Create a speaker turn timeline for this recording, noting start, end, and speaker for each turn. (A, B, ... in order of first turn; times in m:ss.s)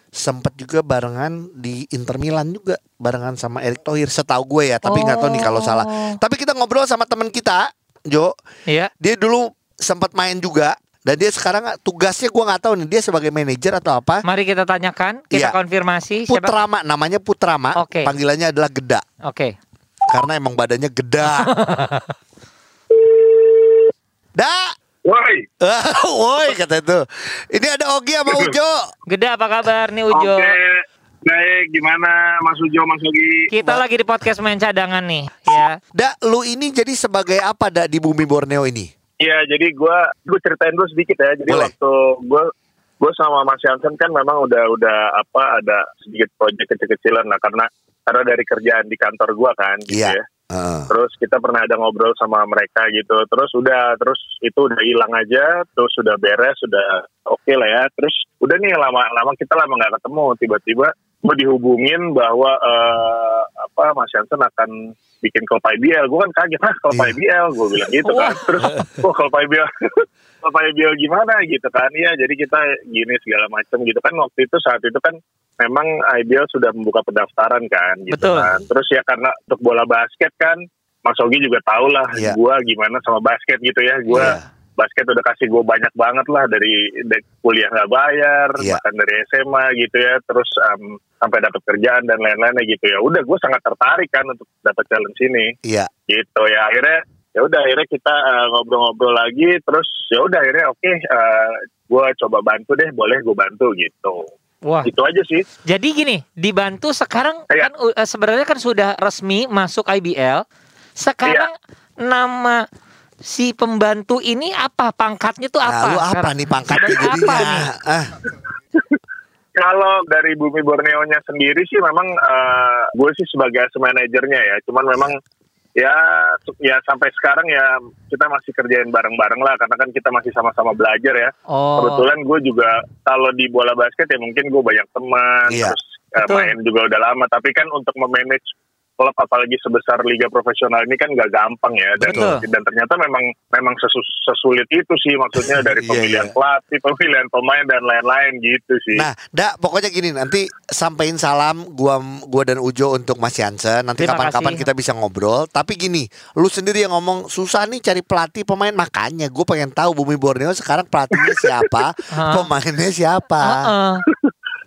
0:00.2-0:08.3 A
0:04.8-0:06.2 B
0:09.0-0:14.2 A
0:14.2-0:16.5 B
0:16.3-0:19.0 A
0:17.8-0:18.1 B
0:19.2-0:19.6 B
0:20.1-0:21.5 A
0:21.2-0:22.1 B
0:22.9-0:23.9 C
0:24.4-0:24.7 A
0:25.0-0:25.5 C
0:25.6-0:28.9 A
0:29.1-0:30.6 B
0:30.1-0:33.5 C
0:33.5-0:35.8 B
0:35.9-0:38.9 A
0:39.2-0:42.5 C
0:41.5-0:41.7 A
0:43.0-0:50.2 C
0:49.9-0:50.9 A
0:50.9-1:35.5 C
1:06.9-1:07.2 A
1:08.0-1:08.4 B
1:18.1-1:18.5 B
1:24.1-1:24.5 A
1:35.6-1:35.9 A
1:36.1-1:44.3 C
1:44.6-1:44.9 B
1:44.9-1:45.5 C
1:45.7-1:50.4 B
1:51.0-1:52.6 B
1:53.2-1:57.7 B
1:55.6-1:58.2 A
1:59.6-2:05.2 C
2:05.8-2:18.4 C
2:11.5-2:12.0 B
2:15.5-2:15.8 A
2:16.2-2:16.5 B
2:19.0-2:29.1 C
2:22.0-2:22.4 B
2:22.0-2:22.3 A
2:25.6-2:26.3 A
2:29.0-2:43.7 A
2:34.0-2:34.6 B
2:41.2-2:41.5 C
2:42.1-2:42.5 B
2:43.4-2:44.0 B